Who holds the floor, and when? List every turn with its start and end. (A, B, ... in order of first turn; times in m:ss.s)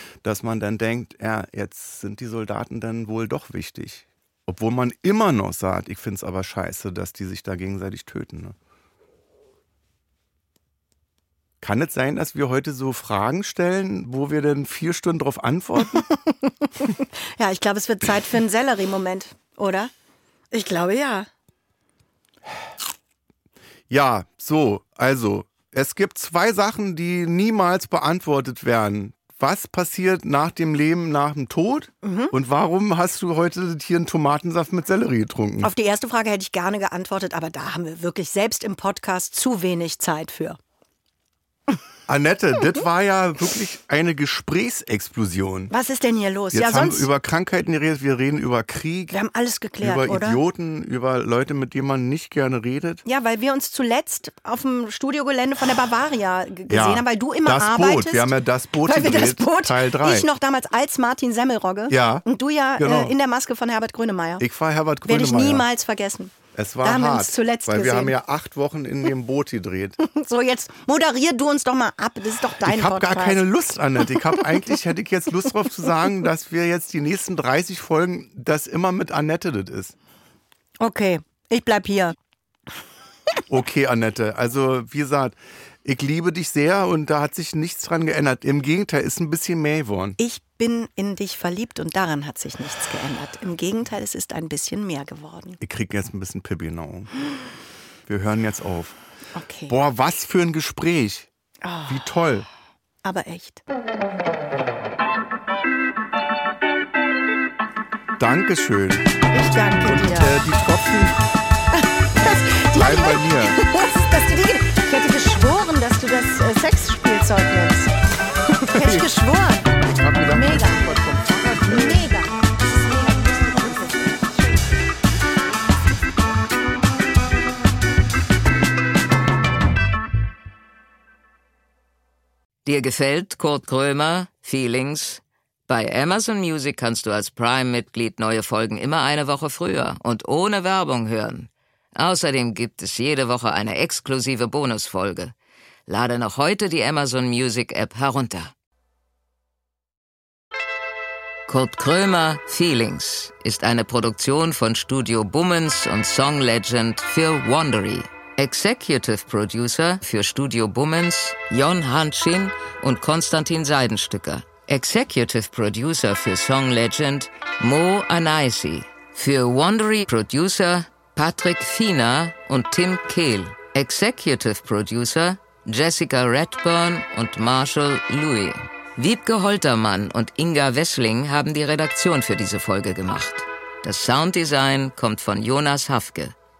0:00.2-0:08.6 A
0:11.6-0:16.1 A
0:15.8-0:19.9 B
0:20.5-0:21.3 B
0:23.9-0:35.7 A
0:32.0-0:32.3 B
0:35.6-0:40.6 B
0:42.1-0:45.7 A
0:45.7-0:47.1 B
0:46.5-0:49.1 A
0:49.1-0:50.4 B
0:49.8-0:53.0 A
0:53.0-1:04.4 B
0:56.7-1:00.3 A
1:01.9-1:02.2 A
1:02.8-1:03.1 A
1:04.4-1:05.6 A
1:05.0-1:08.1 B
1:06.5-1:10.0 A
1:10.0-1:13.5 B
1:12.6-1:20.0 A
1:14.1-1:14.7 B
1:20.8-1:22.1 B
1:23.5-1:30.2 A
1:30.2-1:35.6 B
1:35.6-1:37.1 A
1:38.1-1:39.0 A
1:39.3-1:39.8 B
1:39.7-1:41.3 A
1:41.6-1:42.1 B
1:41.9-1:42.5 A
1:43.0-1:43.6 B
1:48.2-1:49.1 A
1:49.3-1:50.3 B
1:49.8-1:51.2 A
1:51.7-1:57.9 B
1:52.7-1:53.6 A
1:58.6-1:59.1 A
1:58.6-1:59.7 B
1:59.9-2:02.1 A
2:00.3-2:00.8 B
2:01.7-2:04.7 B
2:12.6-2:25.3 C
2:25.9-2:28.5 C
2:31.5-3:06.3 C